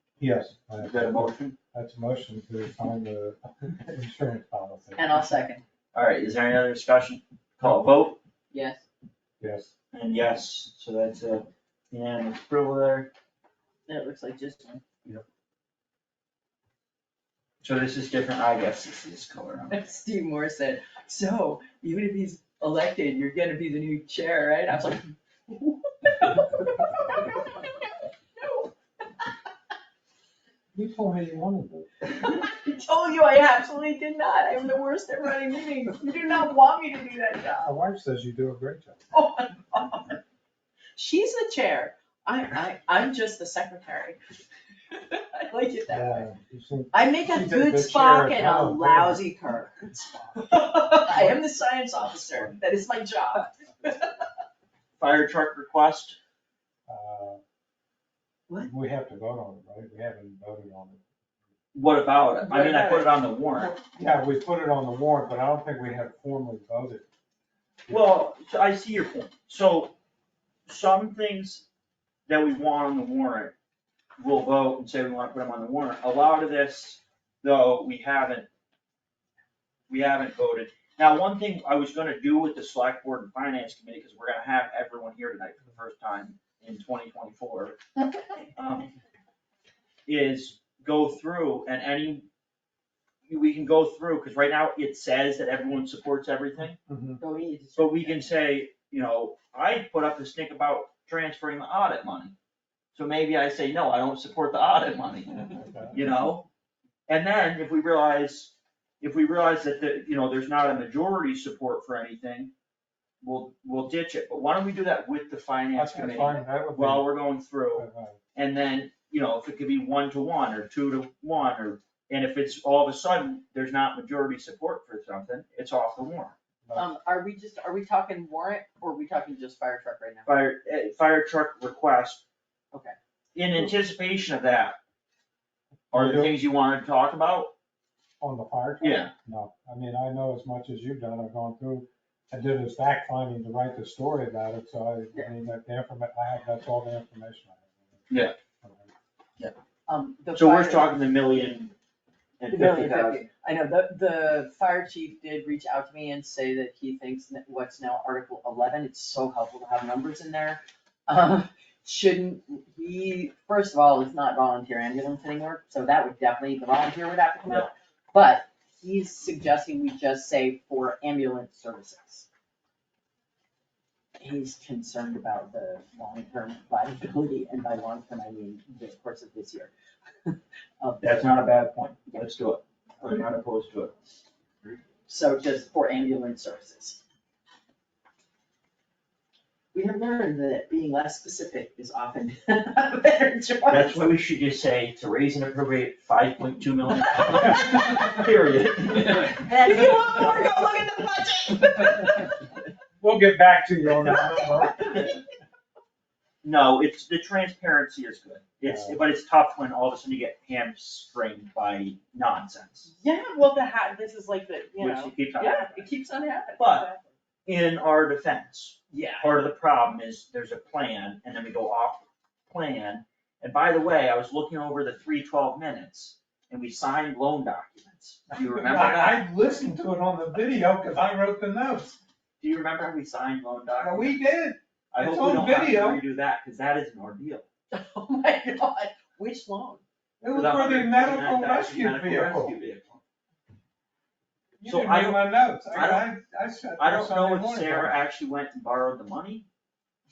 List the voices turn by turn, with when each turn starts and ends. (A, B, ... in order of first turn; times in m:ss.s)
0:00.2-0:05.2 A
0:00.8-0:01.6 B
0:05.0-0:05.6 C
0:05.9-0:08.2 B
0:08.5-0:08.8 C
0:09.4-0:09.7 A
0:09.9-0:13.1 B
0:13.9-0:14.8 C
0:17.6-0:19.8 B
0:19.7-0:29.3 C
0:30.7-0:31.9 A
0:32.0-0:37.7 C
0:37.6-0:39.0 A
0:39.1-0:40.2 C
0:41.0-0:44.2 C
0:44.9-0:46.3 C
0:45.9-0:49.2 A
0:46.9-0:54.1 C
0:55.0-0:56.2 B
0:56.9-0:57.4 A
0:58.6-1:01.0 A
1:01.7-1:03.7 B
1:02.4-1:03.8 C
1:03.9-1:07.0 A
1:07.9-1:09.9 B
1:10.7-1:11.6 B
1:12.3-1:13.5 B
1:14.2-1:18.5 B
1:19.9-1:27.8 B
1:28.5-1:28.9 B
1:30.1-1:32.2 B
1:33.3-1:36.8 B
1:36.8-1:37.2 A
1:37.2-1:38.3 C
1:37.8-1:42.3 B
1:42.9-1:46.4 B
1:45.4-1:46.0 A
1:47.1-1:52.5 B
1:53.2-2:06.3 B
1:55.7-1:57.1 A
1:57.7-1:58.2 A
2:06.7-2:10.3 C
2:10.2-2:12.2 B
2:13.3-2:14.8 B
2:15.9-2:16.3 A
2:15.9-2:17.5 B
2:18.2-2:28.9 A
2:18.8-2:19.1 B
2:29.9-2:31.5 C
2:30.3-2:31.7 B
2:32.4-2:33.2 B
2:32.5-2:52.3 C
2:54.2-2:59.7 C
3:00.2-3:01.3 C
3:01.0-3:03.9 B
3:05.0-3:07.0 C
3:09.7-3:14.1 C
3:13.7-3:19.4 B
3:19.3-3:22.4 C
3:23.0-3:24.9 A
3:24.0-3:25.2 C
3:24.8-3:25.2 B
3:26.4-3:32.9 B
3:28.6-3:29.0 A
3:32.9-3:37.1 C
3:34.8-3:35.9 B
3:36.6-3:36.9 B
3:37.4-3:49.2 B
3:38.9-3:39.4 C
3:48.3-3:52.0 A
3:52.4-3:54.2 B
3:53.8-3:56.0 A
3:54.9-3:57.4 B
3:57.7-3:59.8 C
4:00.2-4:02.6 A
4:00.3-4:03.0 B
4:04.6-4:08.0 A
4:04.6-4:06.1 B
4:06.8-4:09.4 B